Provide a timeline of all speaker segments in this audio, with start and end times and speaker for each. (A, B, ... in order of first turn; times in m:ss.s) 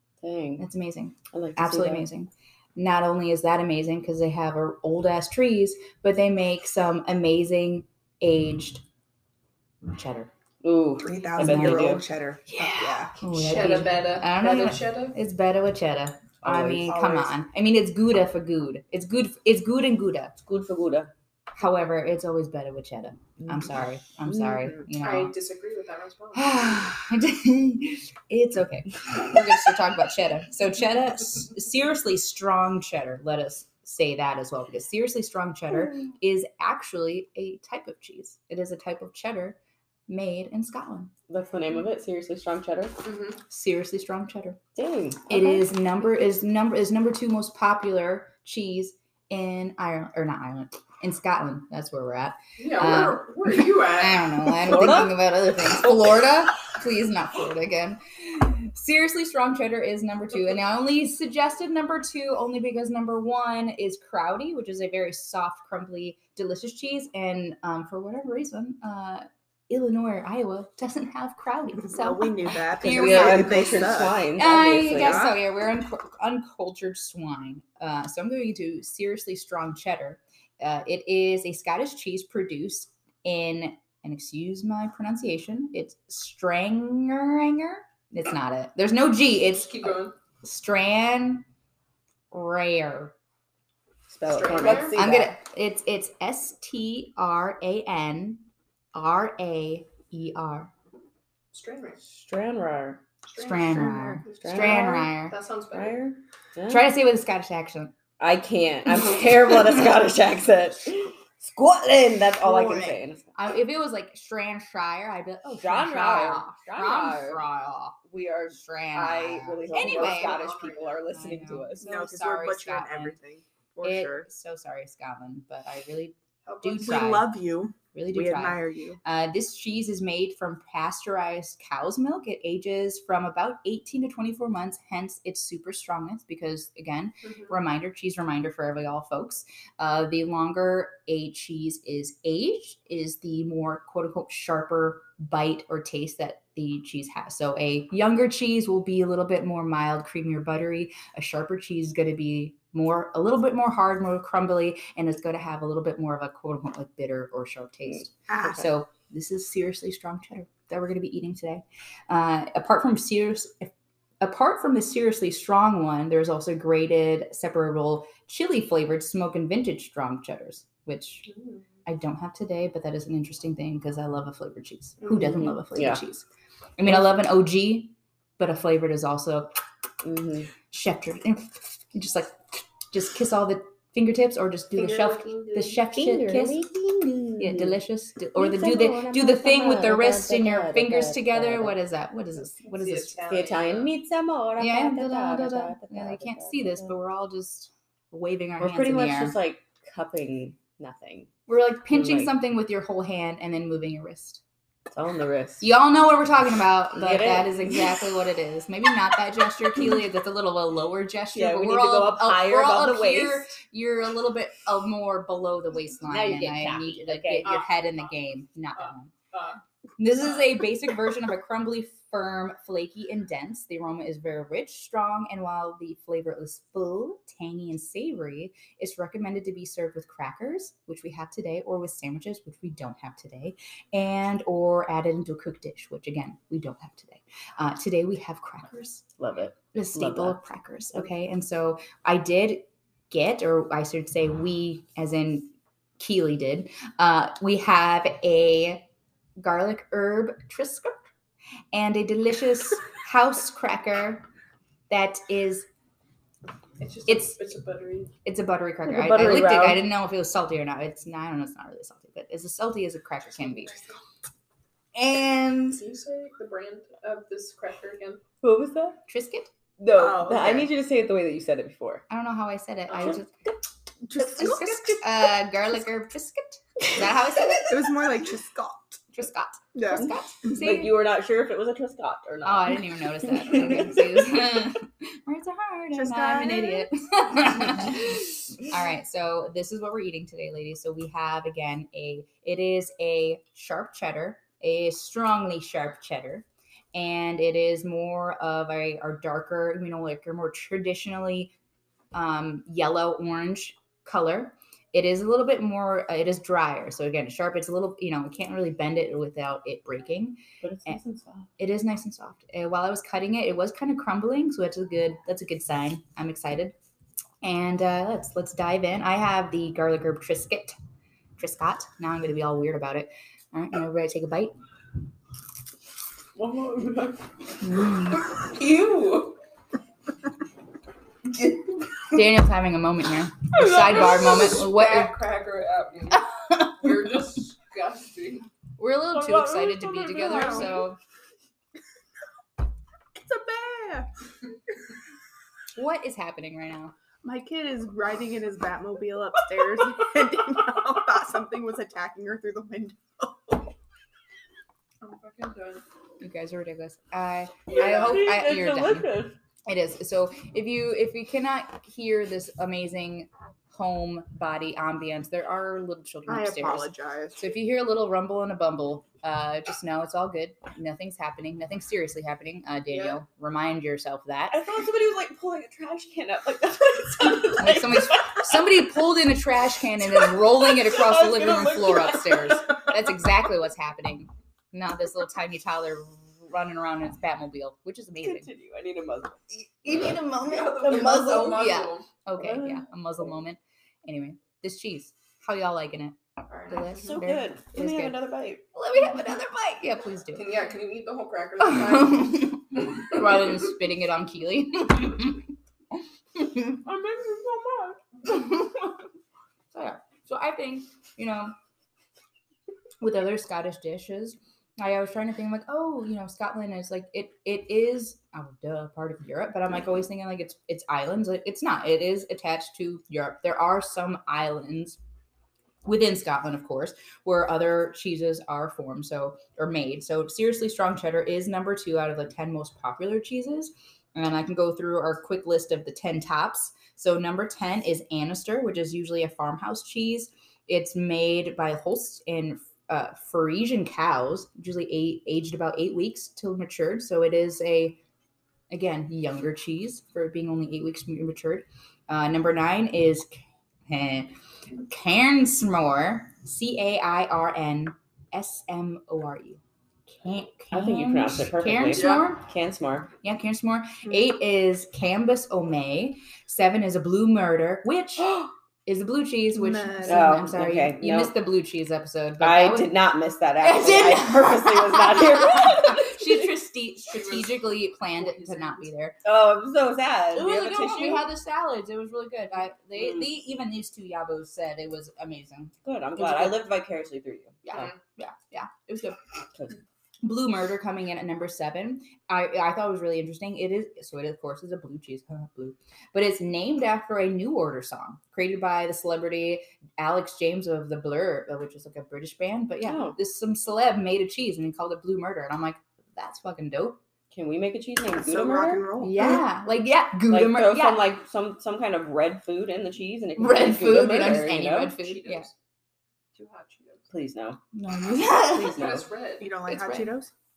0:00.2-0:00.6 A
0:00.6-0:08.8 B
0:01.3-0:02.0 A
0:09.9-0:10.3 B
0:10.6-0:12.0 A
0:11.0-0:13.1 C
0:11.4-0:11.9 B
0:12.5-0:20.3 B
0:13.3-0:15.2 D
0:16.4-0:17.3 A
0:20.4-0:21.1 A
0:21.6-0:25.3 B
0:24.2-0:24.8 A
0:25.0-0:26.6 D
0:26.3-0:41.1 B
0:41.3-0:43.0 A
0:43.0-0:43.4 D
0:43.5-0:44.6 B
0:44.8-0:45.7 A
0:45.3-1:31.4 B
0:52.6-0:54.2 D
0:54.6-0:56.2 A
1:11.8-1:14.3 C
1:12.8-1:15.3 A
1:29.5-1:30.1 D
1:32.3-1:33.1 B
1:34.1-1:35.4 A
1:34.2-1:35.0 D
1:34.6-1:40.7 B
1:41.5-1:42.0 D
1:42.0-1:43.0 A
1:43.3-1:46.0 D
1:43.4-1:45.4 B
1:44.3-1:45.0 A
1:45.7-1:46.9 A
1:46.7-1:47.9 B
1:48.2-1:53.3 A
1:52.4-2:00.4 B
1:55.6-1:57.4 A
1:58.0-2:01.9 A
1:59.7-2:01.0 D
2:01.1-2:03.2 B
2:01.8-2:04.3 C
2:03.8-2:07.3 B
2:06.4-2:07.0 D
2:06.8-2:09.0 C
2:07.9-2:51.3 B
2:17.2-2:17.6 D
2:38.3-2:38.6 C
2:51.3-2:51.6 D
2:51.8-2:56.2 B
2:55.7-2:56.0 A
2:56.8-2:59.5 B
3:00.0-3:00.5 A
3:00.7-3:06.7 B
3:04.8-3:05.8 D
3:05.9-3:07.8 A
3:07.4-3:13.2 B
3:08.3-3:11.8 A
3:12.6-3:13.9 D
3:13.3-3:16.9 A
3:14.6-3:19.4 B
3:18.6-3:21.3 A
3:21.5-3:24.4 B
3:21.9-3:22.3 A
3:24.9-3:25.7 A
3:25.6-3:39.1 B
3:26.9-3:28.0 A
3:31.3-3:33.5 A
3:36.0-3:37.6 A
3:37.4-3:38.0 D
3:38.8-3:39.6 D
3:40.0-3:59.0 B
3:59.2-4:00.4 A
3:59.7-4:08.8 B
4:09.4-4:11.0 B
4:11.7-4:14.3 B
4:14.9-4:15.7 B
4:16.8-4:18.1 D
4:17.1-4:17.4 B
4:18.2-4:23.8 B
4:18.8-4:19.9 A
4:23.4-4:24.0 D
4:24.9-4:25.8 B
4:25.8-4:28.2 D
4:28.4-4:29.0 A
4:29.1-4:29.5 B
4:29.8-4:32.0 A
4:29.9-4:30.7 C
4:32.1-4:33.3 B
4:34.0-4:35.1 C
4:34.1-4:37.8 B
4:37.6-4:39.0 C
4:39.1-4:40.9 B
4:39.7-4:40.1 C
4:40.4-4:44.0 A
4:42.4-5:01.5 B
4:45.9-4:46.9 C
5:02.1-5:11.0 B
5:10.6-5:11.5 A
5:11.6-5:16.7 B
5:17.4-5:20.8 B
5:21.4-5:24.5 B
5:26.3-5:27.2 A
5:27.6-5:28.3 B
5:28.3-5:29.4 D
5:32.1-5:35.1 B
5:33.5-5:38.5 D
5:38.8-5:41.0 B
5:39.1-5:40.8 A
5:40.3-5:40.6 C
5:43.1-5:44.1 C
5:45.8-5:46.9 B
5:47.2-5:53.7 C
5:55.0-5:55.8 D
5:56.2-5:59.1 B
5:57.7-5:59.4 A
5:59.6-6:14.6 B
6:06.3-6:07.4 C
6:12.9-6:13.2 D
6:14.5-6:18.6 A
6:17.6-6:28.5 B
6:20.2-6:22.8 A
6:28.2-6:31.7 A
6:29.8-6:38.2 B
6:30.4-6:32.1 D
6:32.4-6:32.9 A
6:36.5-6:36.9 D
6:36.9-6:38.6 A
6:38.7-6:40.5 B
6:40.3-6:42.5 D
6:41.6-6:45.5 B
6:46.4-6:46.8 B
6:46.8-6:48.0 D
6:48.3-6:48.9 B
6:49.7-6:51.5 B
6:53.0-7:05.0 B
7:05.8-7:28.0 B
7:28.7-7:42.4 B
7:40.7-7:43.1 A
7:41.9-7:42.3 D
7:43.2-7:52.9 B
7:44.0-7:44.3 C
7:49.5-7:50.3 C
7:50.0-7:51.3 A
7:52.4-7:56.4 A
7:53.6-7:59.2 B
7:57.1-7:57.6 D
7:58.1-7:58.9 D
7:59.2-8:01.3 A
8:00.3-8:06.6 B
8:05.8-8:07.9 A
8:07.6-8:09.2 B
8:09.5-8:09.8 A
8:10.2-8:27.0 B
8:22.8-8:23.2 A
8:27.3-8:28.9 A
8:28.2-8:29.4 C
8:29.0-8:31.1 B
8:30.3-8:35.0 A
8:33.4-8:35.5 B
8:34.9-8:35.5 D
8:36.3-8:37.0 D
8:37.1-8:37.6 A
8:37.7-8:38.9 B
8:38.4-8:39.1 A
8:38.5-8:39.5 D
8:39.4-8:40.3 C
8:39.7-8:40.1 B